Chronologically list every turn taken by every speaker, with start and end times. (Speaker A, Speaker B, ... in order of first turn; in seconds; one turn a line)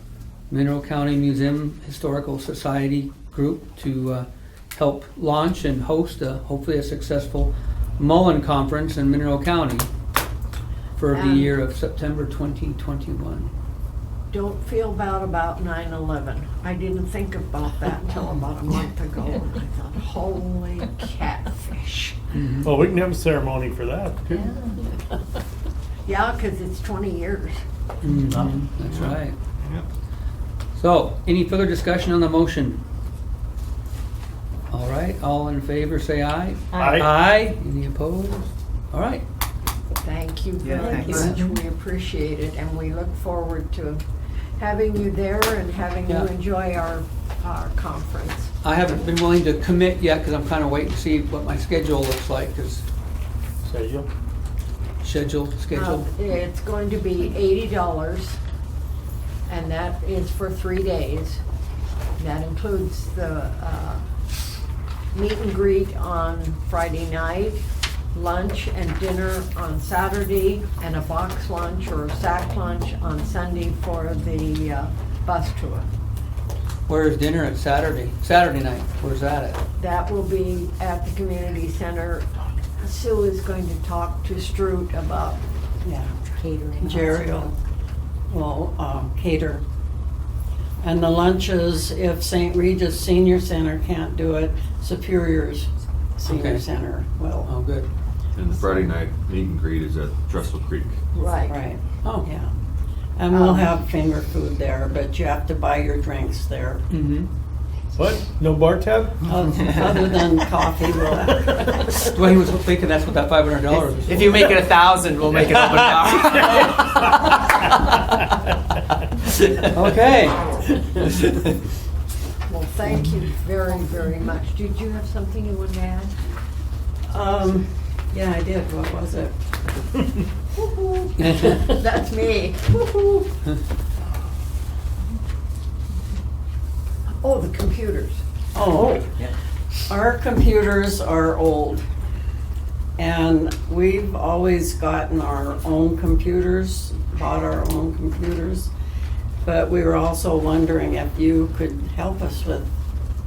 Speaker A: 0.5-9.9
Speaker A: 11.0-13.5
Speaker B: 11.1-11.6
Speaker B: 14.3-22.2
Speaker A: 22.3-22.7
Speaker C: 22.6-24.4
Speaker D: 24.3-24.8
Speaker B: 26.1-27.6
Speaker A: 28.0-29.4
Speaker E: 28.9-29.9
Speaker A: 30.7-32.8
Speaker A: 34.7-39.2
Speaker D: 36.7-37.0
Speaker C: 36.8-37.1
Speaker B: 40.0-44.0
Speaker F: 40.6-41.3
Speaker A: 40.8-41.4
Speaker B: 44.6-48.5
Speaker A: 48.6-52.8
Speaker C: 53.6-54.1
Speaker A: 55.0-56.1
Speaker B: 55.7-58.4
Speaker B: 59.5-61.4
Speaker B: 62.2-64.0
Speaker B: 65.1-67.6
Speaker B: 68.1-75.9
Speaker A: 76.9-79.6
Speaker B: 79.8-85.4
Speaker G: 85.8-86.1
Speaker D: 86.3-87.5
Speaker G: 86.8-87.5
Speaker G: 88.3-89.6
Speaker G: 90.8-97.5
Speaker A: 96.2-96.7
Speaker A: 97.4-97.9
Speaker E: 98.3-101.0
Speaker B: 101.1-101.6
Speaker G: 101.5-102.5
Speaker A: 102.0-102.3
Speaker G: 103.2-106.8
Speaker B: 103.3-103.7
Speaker A: 106.9-107.3
Speaker C: 107.9-109.6
Speaker G: 109.3-112.0
Speaker A: 112.0-114.4
Speaker F: 114.0-118.0
Speaker A: 115.5-117.0
Speaker A: 119.7-120.4
Speaker B: 122.5-126.2
Speaker G: 127.1-129.3
Speaker B: 130.5-133.3
Speaker A: 131.2-131.7
Speaker B: 137.1-138.2
Speaker G: 138.5-139.2
Speaker G: 139.9-141.8
Speaker G: 143.0-148.7
Speaker G: 149.4-152.7